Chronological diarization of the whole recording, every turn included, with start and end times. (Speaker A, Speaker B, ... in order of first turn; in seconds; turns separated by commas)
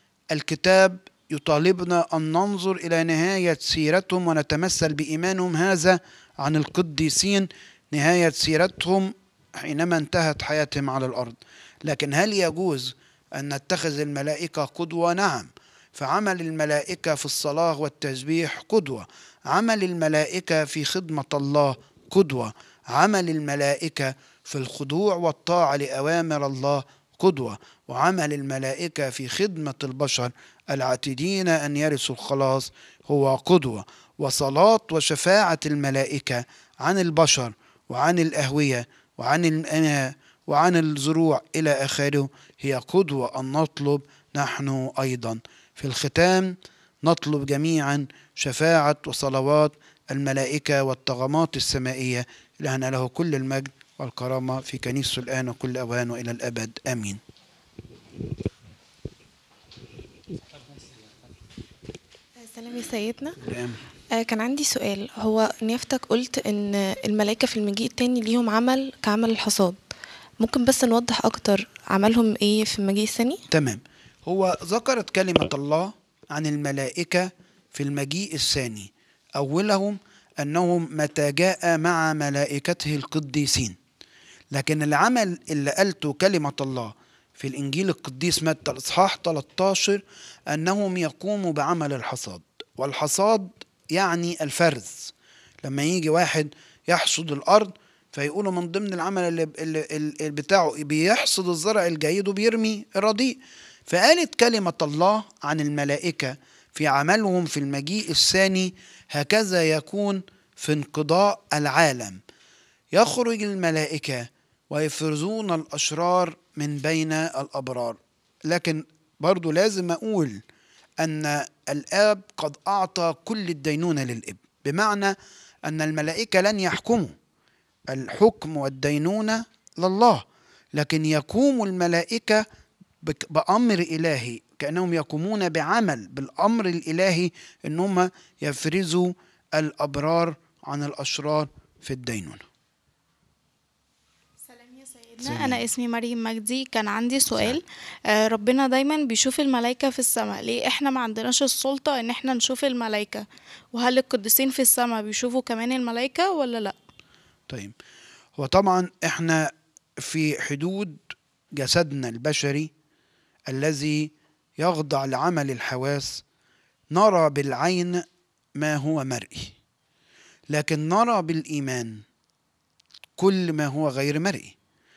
Speaker A: 0.3-57.2, Speaker B: 62.4-63.4, Speaker A: 63.4-63.8, Speaker B: 64.2-69.8, Speaker B: 70.4-73.4, Speaker A: 73.5-83.8, Speaker A: 84.5-95.1, Speaker A: 95.6-112.2, Speaker A: 112.9-120.4, Speaker A: 121.0-125.2, Speaker A: 125.7-127.1, Speaker A: 127.9-132.4, Speaker A: 133.0-142.4, Speaker C: 144.4-156.8, Speaker A: 145.2-145.7, Speaker A: 147.3-147.6, Speaker A: 157.5-157.8, Speaker A: 158.4-161.0, Speaker A: 161.6-162.7, Speaker A: 163.5-166.2, Speaker A: 166.9-168.0, Speaker A: 168.6-169.6, Speaker A: 170.5-172.0, Speaker A: 173.2-174.5